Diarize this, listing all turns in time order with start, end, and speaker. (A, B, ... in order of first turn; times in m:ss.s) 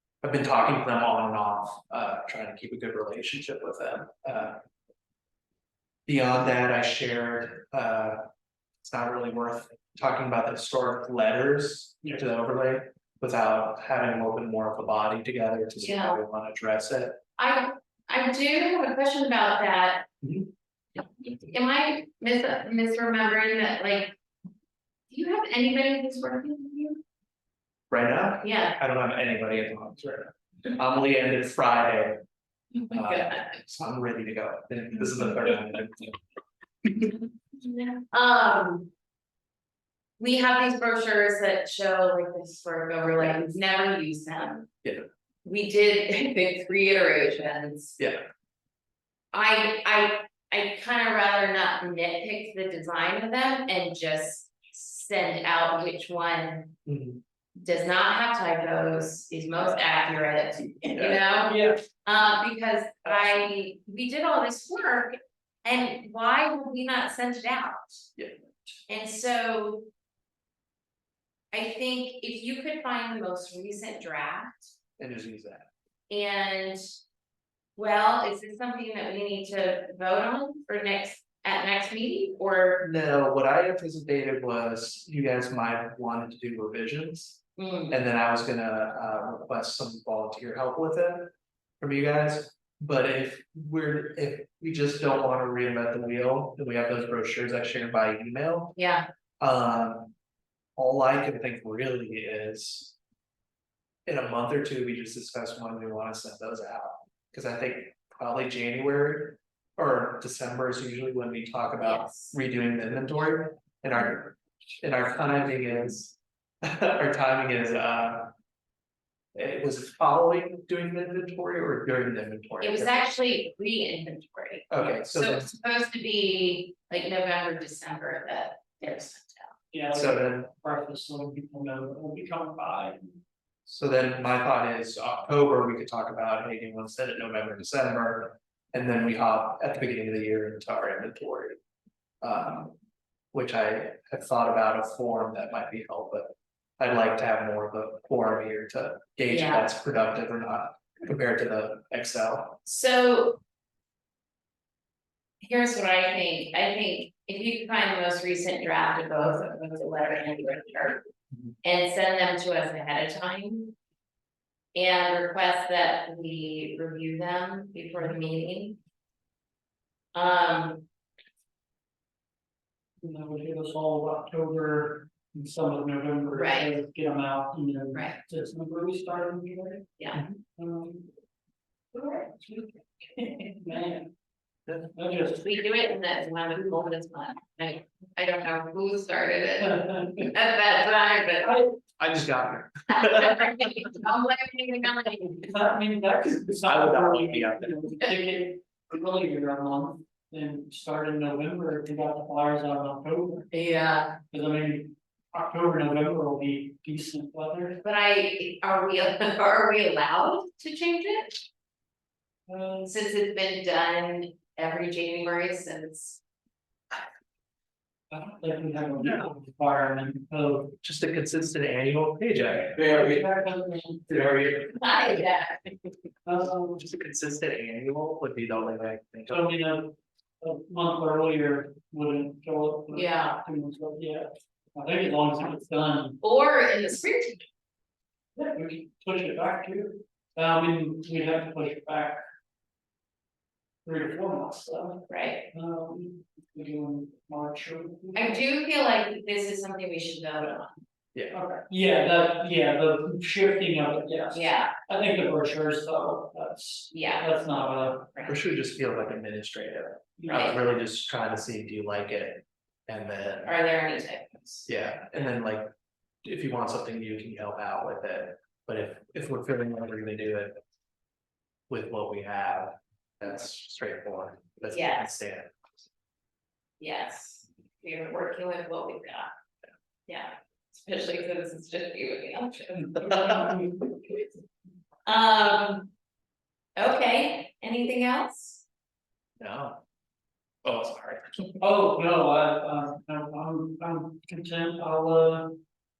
0:00.2-0:04.6 A
0:06.1-0:08.3 A
0:08.8-0:17.2 A
0:15.8-0:16.2 B
0:17.4-0:20.1 B
0:20.2-0:20.5 A
0:21.2-0:24.2 B
0:25.1-0:27.0 B
0:27.9-0:32.2 A
0:28.4-0:28.8 B
0:32.8-0:33.6 B
0:32.9-0:36.2 A
0:37.6-0:38.9 B
0:40.2-0:44.7 B
0:44.8-0:45.1 A
0:45.4-0:48.0 B
0:48.0-0:48.3 A
0:49.3-0:56.8 B
0:56.9-0:57.2 A
0:57.6-1:08.1 B
1:00.9-1:01.2 A
1:01.5-1:01.8 C
1:08.9-1:09.9 B
1:11.5-1:14.8 B
1:15.0-1:15.7 A
1:16.1-1:16.8 B
1:17.8-1:22.8 B
1:22.8-1:38.8 A
1:27.6-1:28.0 B
1:38.8-1:39.1 B
1:39.4-1:40.1 A
1:40.8-1:43.0 A
1:44.1-1:58.3 A
1:51.8-1:52.4 B
1:59.4-2:03.0 A
2:02.6-2:09.6 B
2:04.7-2:05.5 A
2:09.7-2:13.2 C
2:09.9-2:10.5 A
2:13.7-2:21.6 A
2:22.2-2:22.8 A
2:23.3-2:32.6 A
2:29.3-2:29.7 B
2:32.6-2:33.4 B
2:35.4-2:41.0 B
2:41.6-2:43.8 B
2:44.7-2:48.8 B
2:50.1-2:50.8 B
2:53.0-3:01.1 C
2:56.3-2:56.8 B
2:57.9-2:58.2 B
3:01.9-3:04.1 C
3:04.9-3:05.5 C
3:05.4-3:11.6 B
3:09.6-3:10.3 C
3:11.4-3:11.7 C
3:12.0-3:13.9 A
3:12.9-3:15.5 B
3:15.2-3:23.5 C
3:16.6-3:17.8 A
3:23.5-3:24.2 B
3:24.3-3:27.8 C
3:27.8-3:31.4 B
3:32.5-3:32.9 C
3:32.8-3:36.2 B
3:38.1-3:40.7 C
3:40.8-3:43.2 A
3:42.8-3:44.1 C
3:44.1-3:45.2 A
3:44.8-3:45.9 B
3:46.3-3:46.9 C
3:46.8-3:49.5 A
3:49.3-3:56.2 C
3:52.9-3:53.4 B
3:56.2-3:57.4 B
3:58.4-4:02.2 C
4:03.8-4:08.4 C
4:05.1-4:05.5 B
4:08.2-4:10.8 B
4:11.3-4:18.1 C
4:14.3-4:14.7 B
4:16.9-4:17.3 B
4:18.3-4:23.6 A
4:20.2-4:20.5 C
4:20.3-4:20.7 B
4:23.4-4:24.7 B
4:24.7-4:25.7 A
4:26.2-4:30.6 A
4:31.7-4:35.6 A
4:34.7-4:35.1 B
4:36.8-4:39.3 B
4:40.1-4:43.0 B
4:43.0-4:43.4 A
4:43.0-4:44.0 C
4:45.1-4:45.9 B
4:46.8-4:48.6 B
4:49.4-4:49.8 A
4:50.6-4:51.4 A
4:51.6-4:55.6 C